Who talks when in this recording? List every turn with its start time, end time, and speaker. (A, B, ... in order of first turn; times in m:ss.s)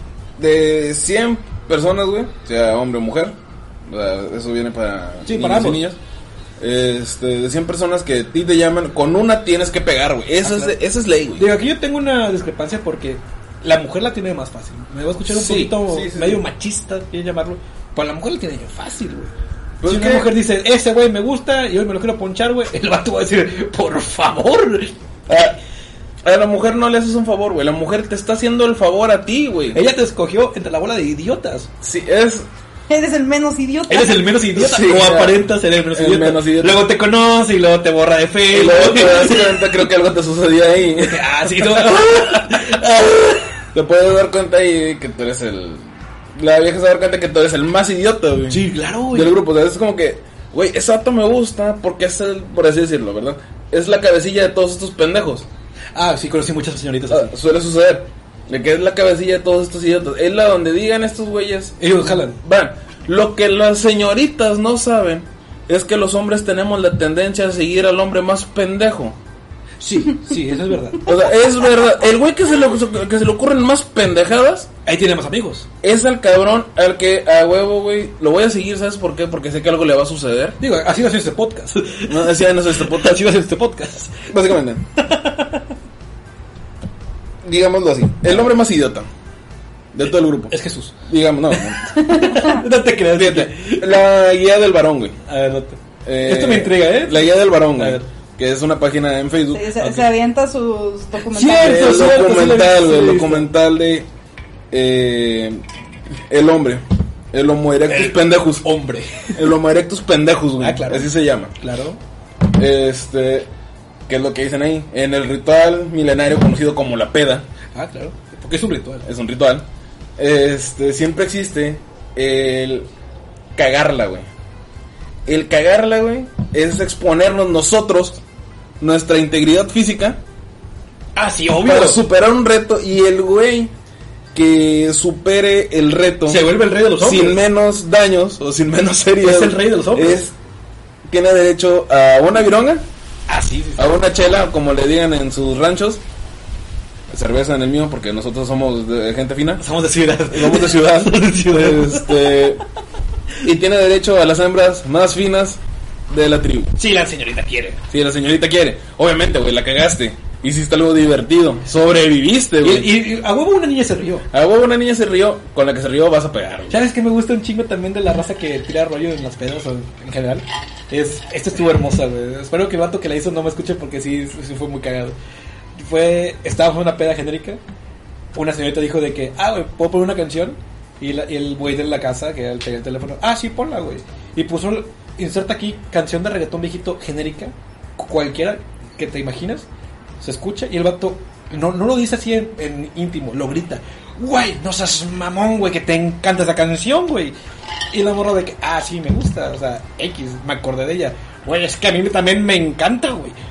0:00.4-0:03.4 A
0:03.9-0:06.0 A
0:05.2-0:05.9 B
0:06.6-0:11.4 A
0:10.4-0:10.7 B
0:11.3-0:19.3 B
0:15.3-0:16.4 A
0:19.8-0:20.3 A
0:19.8-0:24.9 B
0:25.3-0:25.6 A
0:26.2-0:29.8 A
0:29.7-0:31.7 B
0:31.8-0:32.5 A
0:32.9-0:34.3 C
0:33.9-0:39.8 B
0:34.5-0:36.8 A
0:38.5-0:42.9 A
0:40.9-0:43.5 B
0:43.7-0:55.5 A
0:48.5-0:49.3 B
0:55.9-0:57.3 B
0:57.1-1:01.8 A
1:01.8-1:02.4 B
1:02.4-1:09.2 A
1:09.8-1:11.1 B
1:11.0-1:14.7 A
1:14.8-1:15.7 B
1:15.8-1:20.6 A
1:20.6-1:24.3 B
1:22.1-1:23.2 A
1:24.3-1:24.8 A
1:25.0-1:25.7 B
1:27.4-1:29.1 A
1:29.9-1:30.5 A
1:30.5-1:30.9 B
1:31.0-1:32.0 A
1:31.5-1:34.0 B
1:32.1-1:32.5 C
1:33.1-1:35.2 A
1:35.2-1:38.1 B
1:36.0-1:40.0 A
1:39.5-1:42.0 C
1:41.3-1:43.5 B
1:41.5-1:44.1 A
1:44.7-1:45.6 A
1:46.3-1:48.7 A
1:47.9-1:49.4 B
1:49.3-1:51.5 A
1:50.6-1:52.0 B
1:52.5-1:53.5 A
1:54.1-1:57.4 A
1:57.7-1:59.0 B
1:59.0-1:59.6 A
2:00.2-2:02.9 A
2:03.6-2:04.3 A
2:05.2-2:08.2 A
2:08.8-2:10.2 A
2:11.2-2:12.0 B
2:11.6-2:13.7 A
2:14.3-2:16.5 A
2:16.2-2:17.4 B
2:17.0-2:20.3 A
2:19.2-2:20.3 B
2:21.1-2:22.8 A
2:23.3-2:24.0 B
2:23.8-2:26.0 A
2:27.1-2:29.6 A
2:29.6-2:32.4 B
2:30.3-2:32.6 A
2:33.4-2:36.7 A
2:36.8-2:37.8 B
2:37.9-2:42.9 A
2:42.6-2:44.3 B
2:44.3-2:46.8 A
2:46.7-2:55.2 B
2:55.8-2:57.6 B
2:58.3-3:09.7 B
3:10.2-3:17.3 B
3:17.9-3:23.4 B